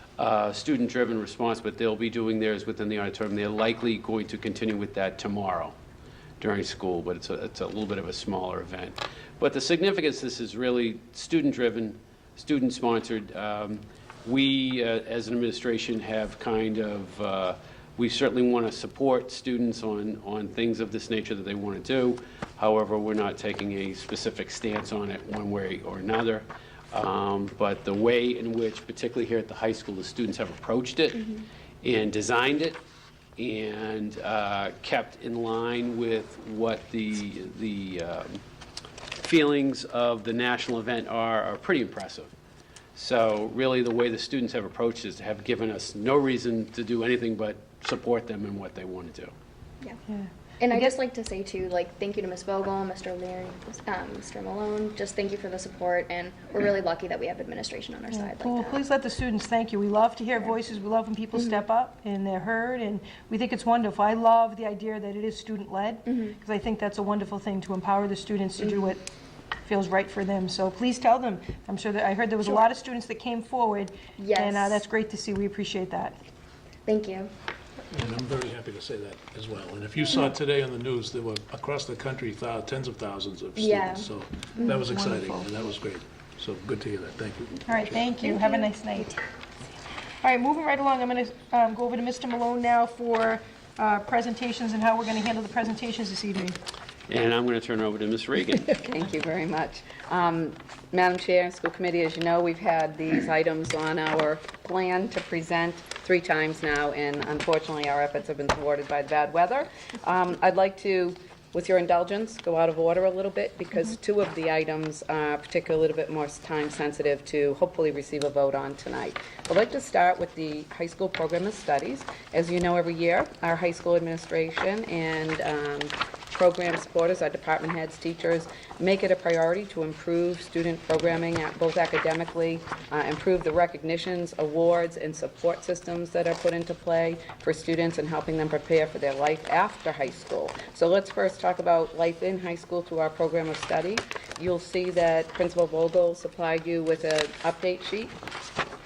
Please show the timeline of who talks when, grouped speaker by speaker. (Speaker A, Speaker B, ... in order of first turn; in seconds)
Speaker A: 0.2-5.8, 6.4-32.8, 33.4-38.4, 39.2-42.3, 43.0-49.3, 97.1-98.7
Speaker B: 50.1-50.9, 58.1-69.1, 69.6-76.2, 84.8-85.5, 87.7-89.2, 90.2-96.6
Speaker C: 50.6-58.8, 61.4-61.6, 66.1-66.3, 68.6-68.9, 74.2-74.8, 76.9-77.3, 83.5-84.8, 88.1-88.7
Speaker D: 77.9-88.1
Speaker E: 98.6-148.2